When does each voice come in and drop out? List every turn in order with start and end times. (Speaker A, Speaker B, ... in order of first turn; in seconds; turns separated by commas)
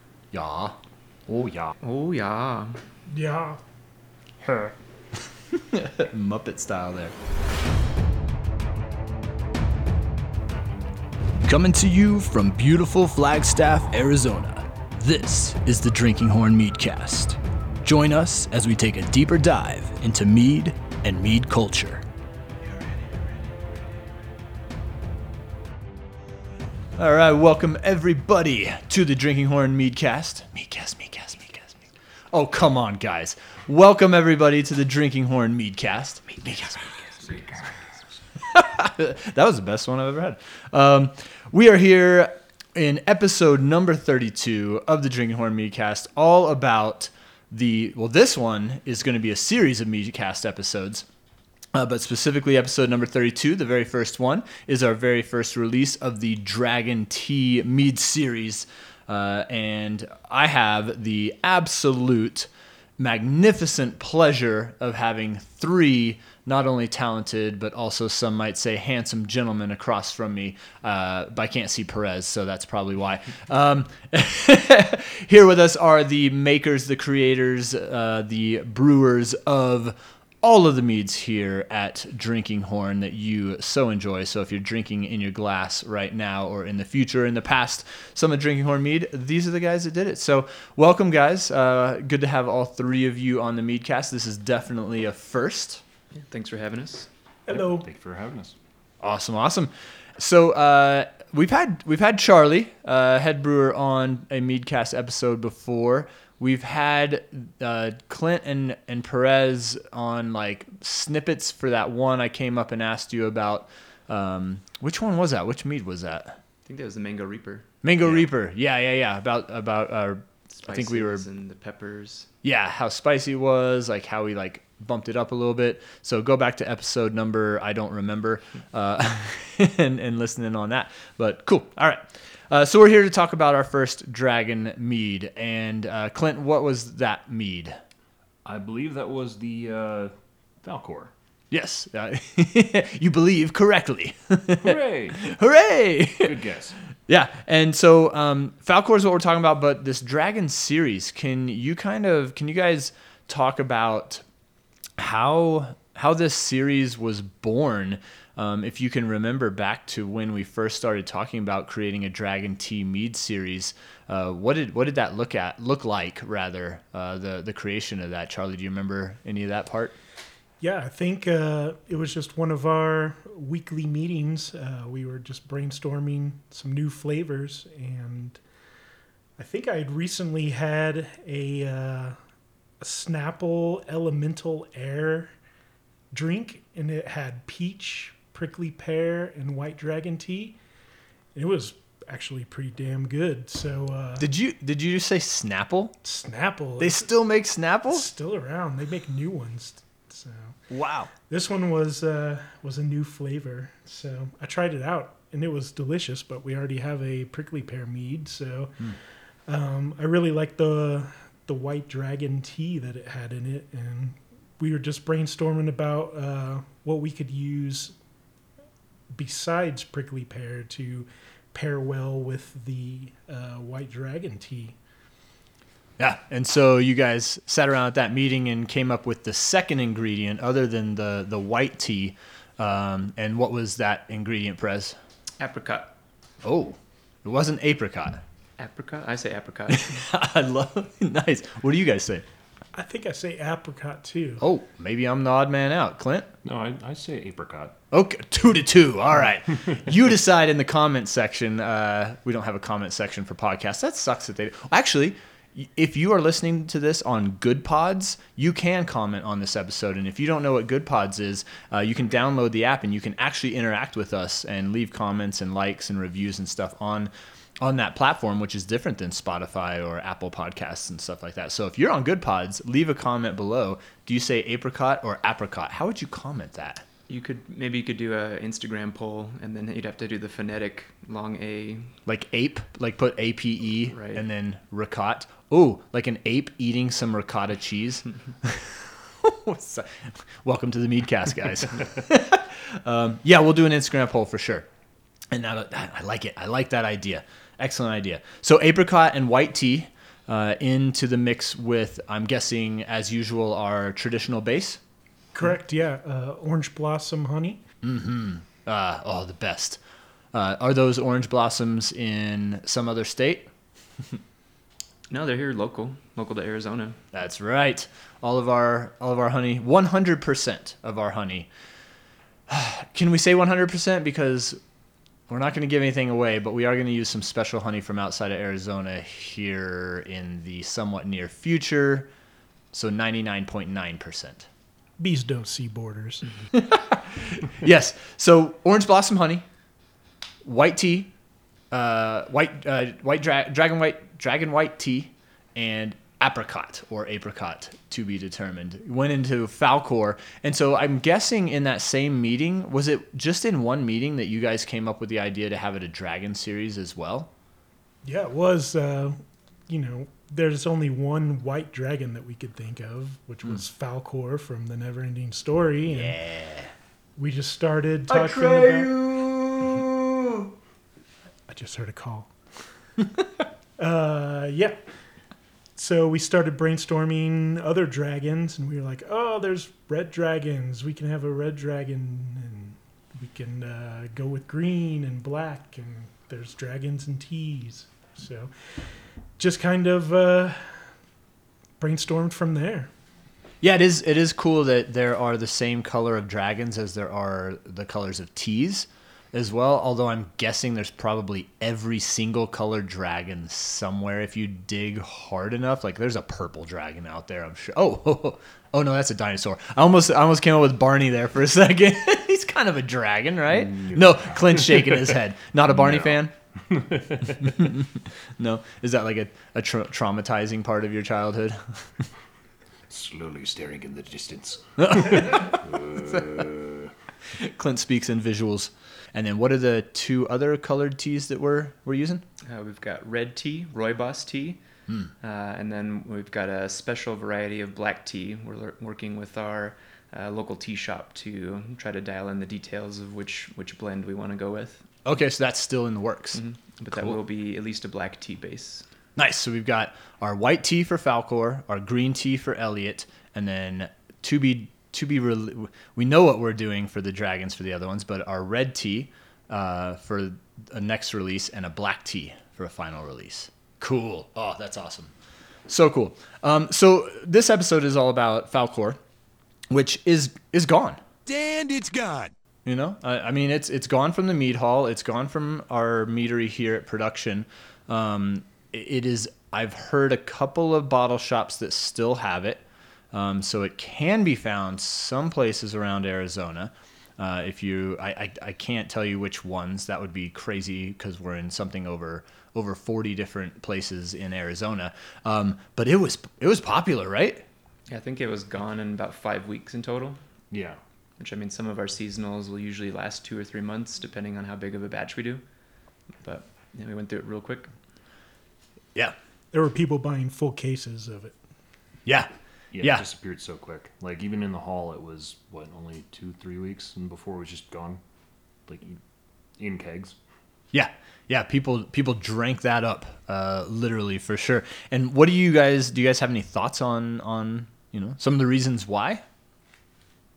Speaker A: 0.3-0.8, Speaker B: 1.3-1.8, Speaker C: 1.8-2.8, Speaker D: 3.1-3.6, Speaker A: 4.4-7.1, Speaker A: 11.4-22.0, Speaker A: 27.0-31.8, Speaker A: 32.3-37.4, Speaker A: 38.4-51.1, Speaker A: 51.7-95.8, Speaker C: 96.2-97.1, Speaker D: 97.5-97.9, Speaker B: 97.5-98.5, Speaker A: 99.0-116.4, Speaker C: 116.7-117.7, Speaker A: 117.8-121.2, Speaker C: 120.6-122.3, Speaker A: 122.4-137.8, Speaker B: 138.4-141.1, Speaker A: 141.5-146.4, Speaker B: 144.6-145.2, Speaker B: 146.2-146.8, Speaker A: 147.1-154.2, Speaker A: 155.0-170.0, Speaker D: 170.6-178.4, Speaker D: 179.4-182.2, Speaker D: 182.8-185.3, Speaker D: 186.1-190.6, Speaker D: 191.3-194.3, Speaker A: 194.2-196.0, Speaker D: 196.0-197.1, Speaker A: 196.8-198.1, Speaker D: 197.9-200.6, Speaker A: 200.7-201.1, Speaker D: 201.3-217.9, Speaker D: 219.1-224.8, Speaker A: 226.0-235.0, Speaker C: 235.4-235.9, Speaker A: 236.4-238.2, Speaker C: 238.6-240.0, Speaker A: 239.7-242.2, Speaker D: 242.7-244.4, Speaker A: 244.4-246.3, Speaker B: 246.4-247.8, Speaker A: 247.9-276.9, Speaker C: 277.1-281.9, Speaker A: 282.1-294.7, Speaker C: 283.9-284.2, Speaker A: 295.3-304.8, Speaker D: 305.3-307.6, Speaker A: 307.8-309.8, Speaker A: 310.3-314.2, Speaker C: 315.1-317.0, Speaker A: 317.1-321.5, Speaker A: 322.5-324.6, Speaker A: 325.3-332.1, Speaker A: 332.7-334.5, Speaker D: 335.0-336.3, Speaker A: 336.5-339.4, Speaker A: 340.4-341.1, Speaker A: 341.7-357.3, Speaker D: 358.0-366.2, Speaker A: 365.9-366.7, Speaker D: 367.2-368.9, Speaker A: 368.1-370.5, Speaker D: 371.5-372.5, Speaker D: 373.8-374.8, Speaker D: 375.8-390.9, Speaker D: 391.8-392.9, Speaker A: 393.6-416.3, Speaker B: 413.5-415.1, Speaker B: 415.7-417.6, Speaker A: 417.4-422.1, Speaker B: 422.9-426.9, Speaker A: 424.8-426.4, Speaker A: 427.3-432.2, Speaker C: 432.5-434.6, Speaker C: 435.2-444.9, Speaker A: 445.1-447.2, Speaker C: 446.3-448.9, Speaker A: 449.2-465.1, Speaker A: 465.7-469.0, Speaker A: 469.7-497.5, Speaker C: 497.9-500.2, Speaker B: 500.5-500.8, Speaker C: 501.2-505.4, Speaker C: 506.2-507.7, Speaker D: 509.5-511.4, Speaker A: 512.1-513.0, Speaker B: 512.7-518.0, Speaker B: 518.7-519.0, Speaker B: 519.6-520.2, Speaker A: 520.7-529.2